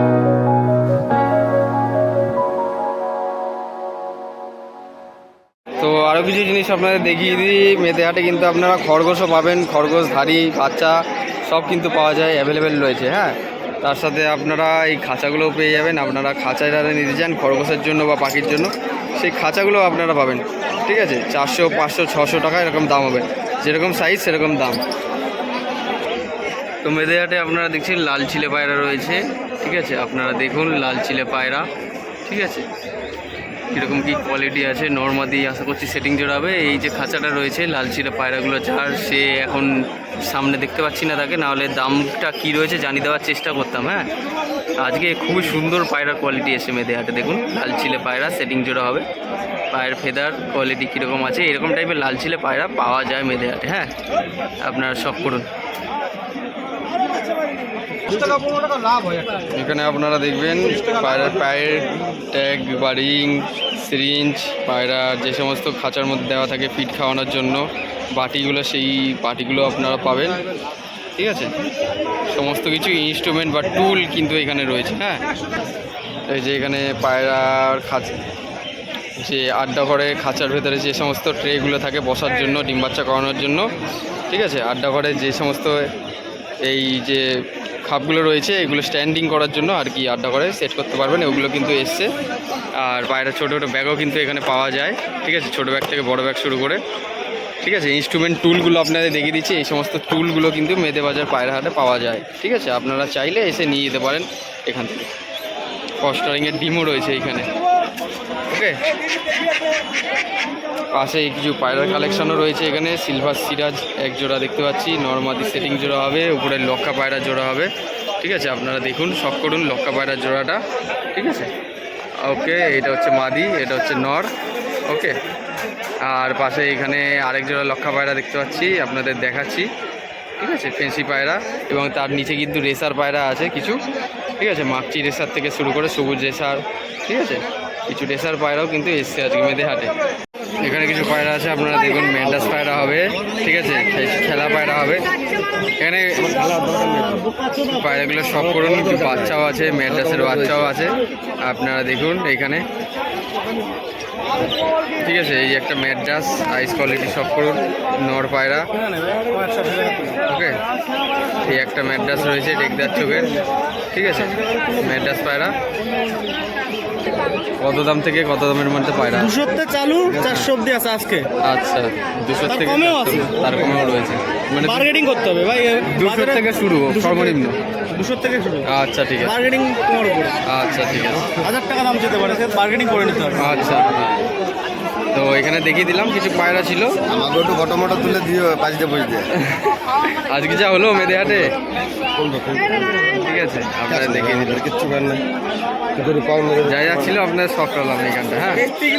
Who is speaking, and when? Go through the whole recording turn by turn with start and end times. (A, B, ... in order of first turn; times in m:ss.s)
0:05.8-0:24.8 A
0:26.8-0:31.7 A
0:32.2-0:32.7 A
0:33.7-0:44.1 A
0:44.8-0:49.0 A
0:49.7-0:53.9 A
0:54.6-0:55.5 A
0:58.1-0:59.2 B
0:59.4-1:10.4 A
1:11.2-1:11.5 A
1:12.3-1:15.2 A
1:16.3-1:18.2 A
1:19.2-1:23.7 A
1:24.3-1:25.9 A
1:26.6-1:27.3 A
1:27.8-1:32.1 A
1:32.7-1:36.8 A
1:37.6-1:45.1 A
1:46.0-1:47.5 A
1:48.5-1:48.8 A
1:50.9-2:00.6 A
2:01.1-2:01.5 A
2:02.2-2:04.3 A
2:04.9-2:05.1 A
2:06.0-2:09.7 A
2:10.4-2:13.8 A
2:14.4-2:19.9 A
2:20.6-2:25.1 A
2:25.8-2:27.0 A
2:27.5-2:32.6 A
2:35.0-2:38.7 A
2:39.2-2:40.1 B
2:40.2-2:40.6 A
2:41.4-2:43.3 A
2:43.9-2:45.5 A
2:47.6-2:49.4 A
2:49.2-2:51.3 B
2:50.1-2:50.5 A
2:51.4-2:55.0 A
2:52.6-2:53.5 B
2:54.7-2:56.4 B
2:55.8-2:57.6 A
2:57.9-2:58.7 B
2:58.6-2:59.5 A
2:59.3-3:00.4 B
3:00.4-3:01.5 A
3:01.4-3:03.5 B
3:03.3-3:04.0 A
3:05.1-3:07.0 A
3:07.1-3:09.2 C
3:09.3-3:11.6 A
3:12.2-3:12.8 C
3:13.0-3:14.7 A
3:14.6-3:15.2 C
3:16.0-3:16.6 C
3:16.6-3:18.7 A